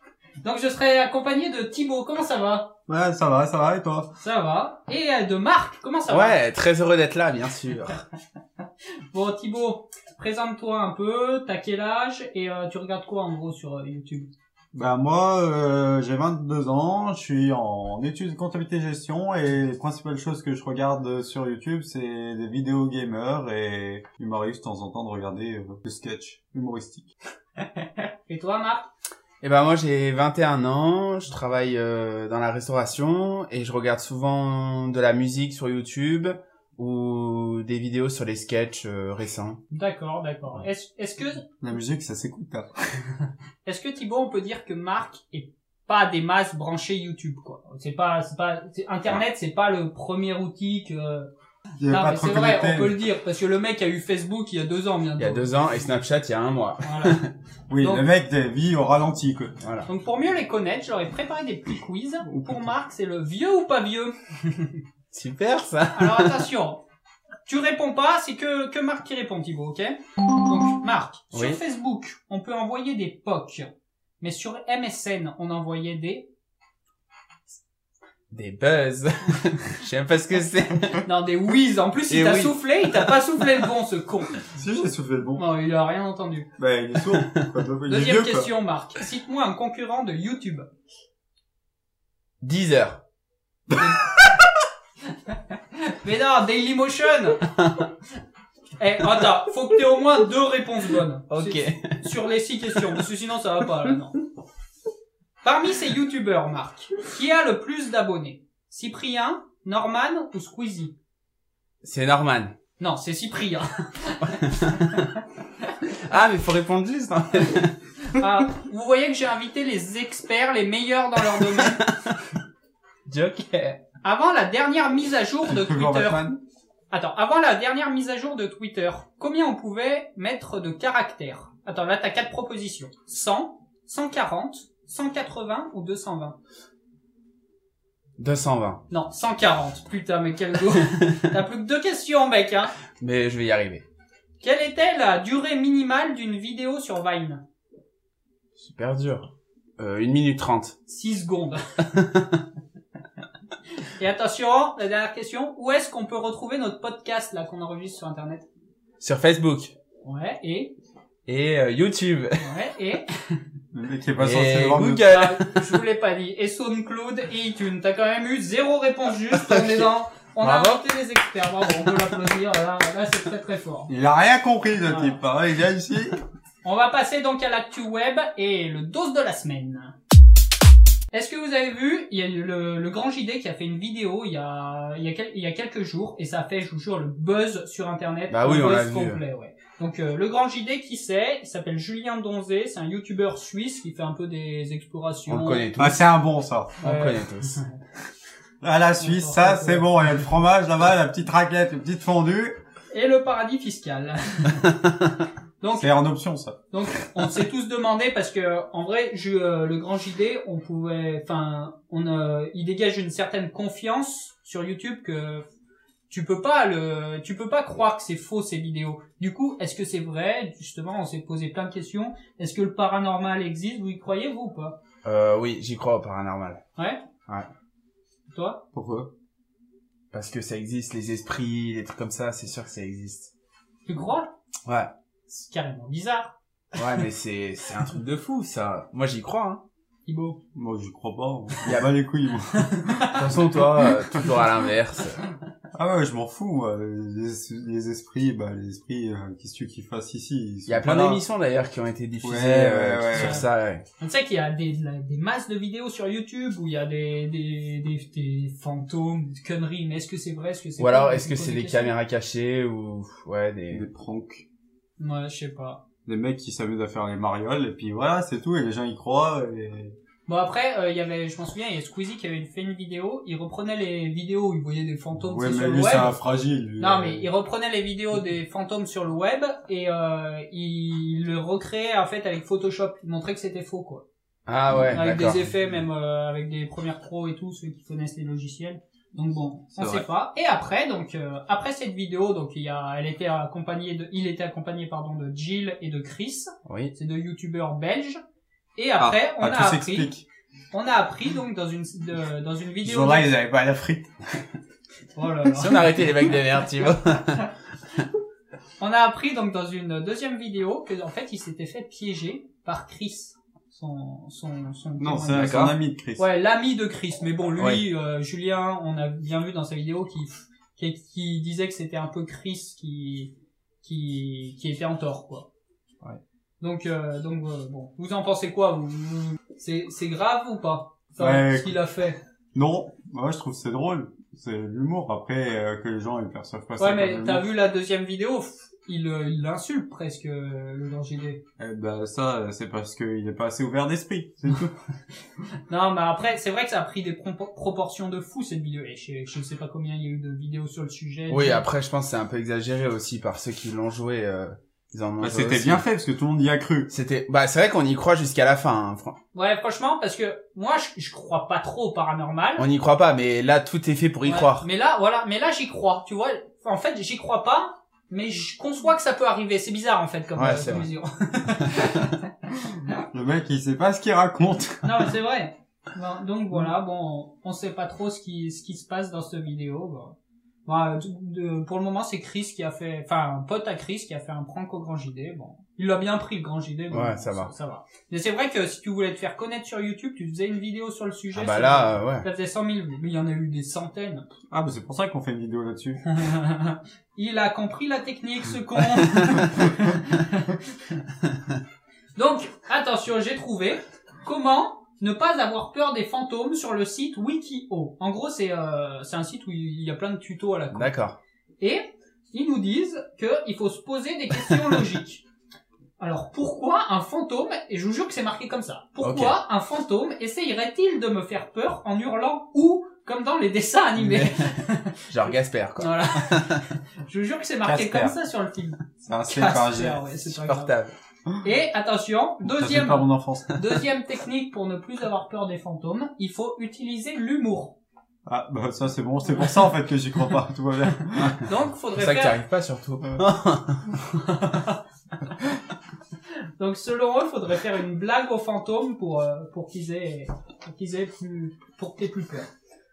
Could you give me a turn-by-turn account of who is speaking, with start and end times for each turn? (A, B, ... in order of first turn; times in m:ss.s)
0:00.4-0:02.7 A
0:02.9-0:04.1 B
0:04.2-0:06.4 A
0:06.1-0:08.0 C
0:09.1-0:14.3 A
0:14.7-0:27.1 B
0:28.3-0:28.9 A
0:29.4-0:39.6 C
0:39.7-0:41.5 A
0:41.6-0:42.7 B
0:43.6-0:51.3 A
0:51.8-0:53.0 B
0:51.9-0:55.9 A
0:55.2-0:57.3 C
0:56.8-0:57.2 A
0:57.7-0:59.6 B
0:57.8-0:58.0 A
0:59.6-0:59.9 C
0:59.9-1:04.8 A
1:02.2-1:02.7 B
1:05.1-1:06.4 C
1:05.9-1:06.8 A
1:07.4-1:16.3 A
1:11.3-1:11.6 C
1:18.3-1:21.0 C
1:21.0-1:24.5 A
1:22.1-1:23.6 C
1:24.5-1:25.4 B
1:25.4-1:26.5 A
1:26.6-1:28.5 B
1:27.1-1:27.5 C
1:27.9-1:30.7 A
1:32.4-1:33.0 C
1:33.7-1:34.4 B
1:33.7-1:34.2 A
1:35.3-1:37.4 A
1:37.6-1:37.9 C
1:38.8-1:44.2 A
1:41.3-1:42.0 C
1:45.4-1:50.9 A
1:51.8-1:52.6 C
1:52.8-1:55.1 A
1:54.4-1:55.1 C
1:55.9-1:57.8 C
1:58.1-2:01.8 A
2:01.4-2:02.3 C
2:03.1-2:03.8 C
2:04.0-2:06.3 A
2:05.4-2:06.4 B
2:06.9-2:16.4 A
2:18.2-2:18.8 C
2:18.9-2:22.8 A
2:23.0-2:23.8 C
2:24.4-2:27.4 A
2:28.6-2:30.8 C
2:30.9-2:31.6 A
2:31.9-2:32.4 C
2:34.0-2:38.5 A
2:39.0-2:39.7 C
2:40.0-2:40.8 A
2:41.3-2:42.5 C
2:42.4-2:43.4 A
2:43.7-2:45.1 B
2:44.2-2:45.8 C
2:45.1-2:53.9 A
2:49.3-2:49.9 C
2:50.4-2:50.8 C
2:53.9-2:56.2 B
2:54.9-2:55.2 A
2:56.6-2:59.9 A
3:01.1-3:15.7 A
3:08.3-3:09.2 C
3:15.3-3:16.0 C
3:15.8-3:16.8 B
3:16.8-3:17.6 C
3:16.8-3:17.8 A
3:18.6-3:22.6 B
3:19.0-3:19.9 A
3:22.9-3:24.8 A
3:25.6-3:25.9 A
3:25.8-3:26.6 B
3:26.7-3:35.4 A
3:36.1-3:44.8 A
3:45.0-3:46.6 C
3:48.3-3:48.6 A
3:48.7-3:49.1 B
3:50.1-3:53.3 C
3:53.8-3:54.3 A
3:55.3-3:56.3 A
3:56.8-3:59.6 C
4:00.1-4:00.4 A
4:00.5-4:03.2 B
4:02.7-4:03.2 A
4:03.1-4:05.2 C
4:05.8-4:11.2 B
4:10.7-4:13.8 C
4:12.2-4:13.5 B
4:13.2-4:13.4 A
4:14.0-4:21.9 A
4:20.8-4:23.8 C
4:23.7-4:24.4 B
4:25.0-4:25.8 A
4:26.1-4:30.0 B
4:30.3-4:36.1 A
4:35.2-4:37.3 B
4:36.8-4:44.0 A
4:44.4-4:45.5 C
4:44.9-4:58.2 A
4:49.8-4:50.0 B
4:56.7-4:56.9 C
4:58.8-5:00.1 A
4:59.0-5:00.3 B
5:00.7-5:03.3 A
5:02.8-5:04.1 B
5:05.1-5:05.9 A
5:05.5-5:07.5 C
5:08.8-5:15.6 A
5:15.0-5:16.2 B
5:15.3-5:15.7 C
5:16.2-5:23.3 A
5:17.6-5:17.8 C
5:23.8-5:25.5 A
5:26.6-5:32.2 A
5:31.2-5:31.8 B
5:32.5-5:37.5 B
5:36.8-5:41.4 A
5:41.6-5:44.8 B
5:45.7-5:51.6 A
5:51.3-5:55.8 C
5:55.2-5:56.9 B
5:56.9-5:59.2 C
5:59.3-6:02.6 A
6:02.6-6:04.6 C
6:04.2-6:12.2 A
6:10.4-6:10.9 C
6:11.7-6:12.1 C
6:13.1-6:15.1 B
6:14.8-6:20.1 A
6:20.6-6:34.3 A
6:26.9-6:27.5 C
6:31.3-6:32.2 C
6:34.5-6:36.2 B
6:36.1-6:40.6 A
6:39.1-6:39.4 C
6:42.2-6:50.9 A
6:50.7-6:51.2 C
6:51.6-6:55.2 A
6:56.0-7:10.7 A
6:59.0-6:59.4 C
7:04.0-7:04.5 C
7:05.1-7:06.6 C
7:07.6-7:08.2 B
7:09.0-7:10.0 B
7:10.3-7:10.9 C
7:11.4-7:17.8 A
7:12.5-7:13.6 B
7:18.2-7:21.4 B
7:21.2-7:24.0 C
7:21.4-7:22.4 A
7:24.1-7:24.8 A
7:26.6-7:32.5 A